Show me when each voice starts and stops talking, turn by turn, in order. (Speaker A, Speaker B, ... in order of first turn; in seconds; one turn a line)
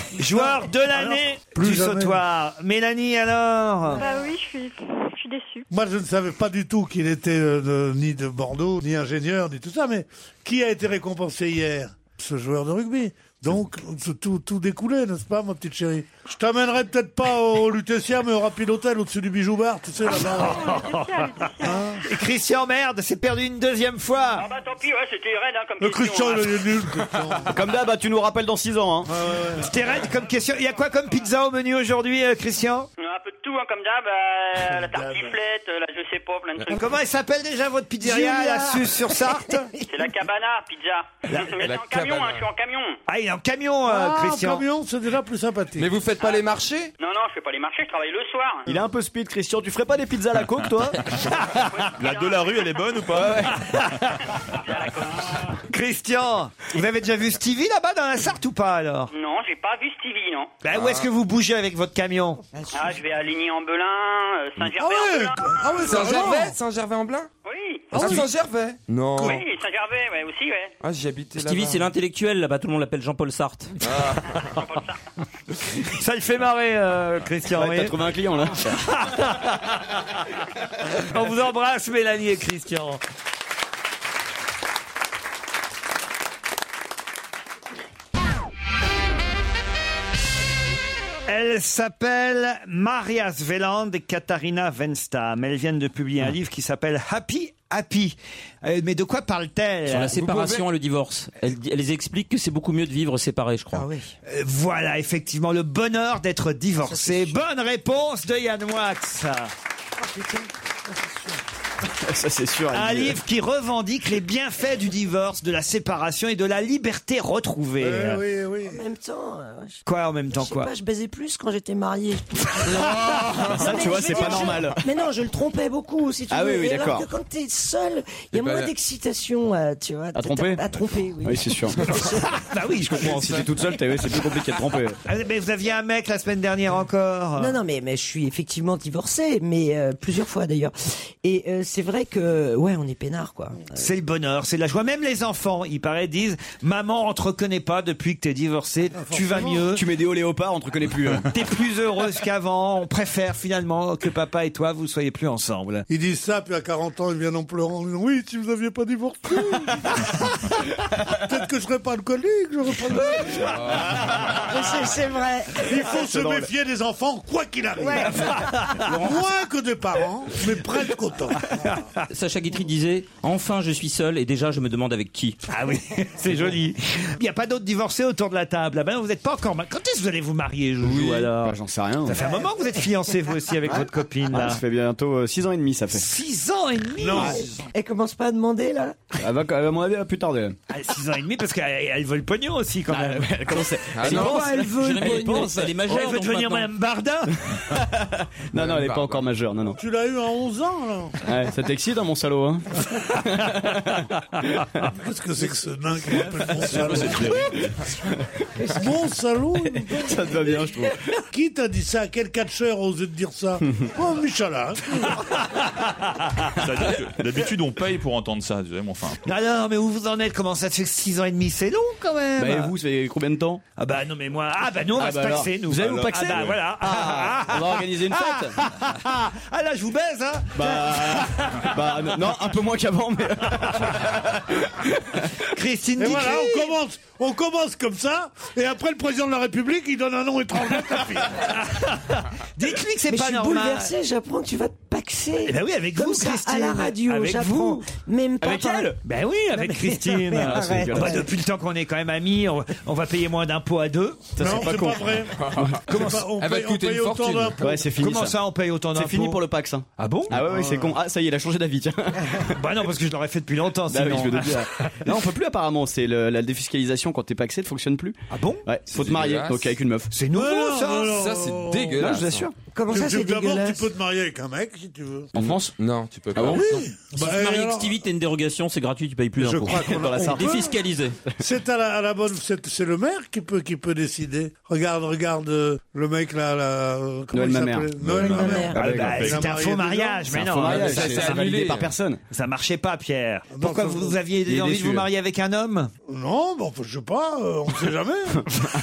Speaker A: 0.2-4.0
Speaker B: 0.4-2.2
Speaker C: 4.0-5.7
Speaker B: 5.7-20.7
Speaker C: 20.1-22.0
Speaker A: 20.1-21.3
Speaker B: 21.6-22.0
Speaker A: 22.0-24.5
Speaker D: 24.3-26.6
Speaker B: 25.8-27.6
Speaker E: 27.5-29.1
Speaker B: 29.1-29.7
Speaker A: 29.6-32.9
Speaker D: 33.0-36.8
Speaker B: 34.5-35.4
Speaker A: 36.7-39.7
Speaker F: 38.0-40.1
Speaker D: 39.9-43.0
Speaker G: 41.6-42.5
Speaker A: 43.1-44.6
Speaker B: 43.9-45.9
Speaker G: 45.8-46.9
Speaker D: 47.0-48.6
Speaker E: 48.7-51.0
Speaker D: 51.6-52.7
Speaker H: 52.0-53.6
Speaker A: 53.7-54.1
Speaker D: 54.6-55.5
Speaker A: 55.7-59.1
Speaker D: 59.1-60.5
Speaker A: 60.6-62.4
Speaker G: 60.8-61.0
Speaker F: 62.6-63.0
Speaker D: 62.7-66.2
Speaker B: 64.7-66.6
Speaker G: 65.8-67.3
Speaker D: 67.5-67.9
Speaker B: 67.9-68.3
Speaker G: 67.9-69.4
Speaker B: 69.2-69.4
Speaker D: 69.2-70.7
Speaker G: 70.8-71.9
Speaker I: 71.3-73.7
Speaker G: 73.8-74.2
Speaker D: 74.6-75.0
Speaker A: 75.8-77.9
Speaker E: 77.5-78.8
Speaker A: 78.7-80.2
Speaker A: 80.9-83.0
Speaker A: 91.3-100.2
Speaker I: 99.9-103.9
Speaker G: 100.2-100.6
Speaker F: 103.7-104.1
Speaker A: 104.3-109.5
Speaker F: 106.8-107.4
Speaker F: 110.0-110.5
Speaker E: 112.0-113.2
Speaker A: 112.7-118.2
Speaker B: 117.8-118.8
Speaker F: 118.6-132.4
Speaker A: 119.8-120.7
Speaker G: 122.8-124.0
Speaker E: 123.5-124.8
Speaker E: 126.3-127.1
Speaker G: 128.3-128.7
Speaker E: 130.1-130.7
Speaker E: 131.2-132.0
Speaker A: 132.3-133.3
Speaker E: 132.8-135.0
Speaker G: 133.2-133.5
Speaker A: 135.0-137.6
Speaker F: 137.4-143.8
Speaker A: 143.8-149.8
Speaker B: 149.0-149.7
Speaker E: 149.7-151.3
Speaker A: 151.3-155.9
Speaker B: 155.9-160.3
Speaker B: 161.1-163.7
Speaker G: 163.5-164.0
Speaker F: 164.3-165.7
Speaker B: 165.6-171.4
Speaker E: 166.0-166.5
Speaker F: 167.8-168.1
Speaker A: 168.0-168.9
Speaker I: 168.9-169.2
Speaker A: 171.6-171.9
Speaker I: 172.1-175.4
Speaker A: 175.5-184.6
Speaker E: 180.9-182.2
Speaker E: 183.7-186.1
Speaker A: 185.9-187.6
Speaker B: 187.0-187.4
Speaker F: 187.2-189.1
Speaker E: 189.2-190.6
Speaker A: 190.7-194.4
Speaker E: 192.9-195.8
Speaker G: 193.9-194.6
Speaker I: 194.2-196.7
Speaker F: 194.3-195.2
Speaker A: 195.1-197.3
Speaker E: 197.7-199.8
Speaker G: 198.6-199.2
Speaker B: 199.8-201.2
Speaker E: 201.2-204.1
Speaker B: 204.9-207.6
Speaker E: 206.7-207.4
Speaker B: 208.7-210.4
Speaker E: 209.9-211.0
Speaker B: 211.3-215.2
Speaker A: 215.3-216.4
Speaker H: 216.6-219.2
Speaker A: 219.2-222.7
Speaker E: 222.4-223.6
Speaker A: 223.8-231.8
Speaker E: 224.9-228.6
Speaker H: 226.3-226.6
Speaker E: 230.6-235.2
Speaker A: 235.5-236.8
Speaker B: 236.0-241.5
Speaker A: 241.5-243.9
Speaker F: 243.1-248.9
Speaker A: 245.4-247.8
Speaker E: 248.4-249.0
Speaker A: 249.0-254.3
Speaker F: 249.5-251.3
Speaker E: 250.3-251.2
Speaker E: 254.4-256.0
Speaker B: 254.4-257.7
Speaker G: 255.3-257.7
Speaker E: 257.6-258.4
Speaker A: 258.0-259.4
Speaker E: 258.9-262.6
Speaker A: 260.0-260.4
Speaker B: 260.3-261.0
Speaker A: 262.5-265.1
Speaker E: 263.9-270.1
Speaker A: 268.3-268.6
Speaker G: 268.9-269.8
Speaker A: 270.1-271.2
Speaker B: 270.3-272.1
Speaker G: 271.0-272.5
Speaker E: 271.9-272.5
Speaker F: 272.7-273.9
Speaker B: 272.9-275.3
Speaker E: 275.4-275.7
Speaker G: 275.4-276.9
Speaker E: 276.4-276.6
Speaker B: 276.4-278.0
Speaker I: 277.1-281.2
Speaker B: 279.4-280.8
Speaker E: 279.7-280.6
Speaker B: 281.4-290.3
Speaker E: 287.3-287.9
Speaker H: 288.1-289.4
Speaker F: 288.2-288.8
Speaker E: 288.5-289.4
Speaker A: 288.8-291.5
Speaker E: 290.3-292.2
Speaker G: 290.6-291.9
Speaker A: 292.3-295.9
Speaker B: 293.5-294.2
Speaker E: 294.5-295.1
Speaker B: 296.1-298.4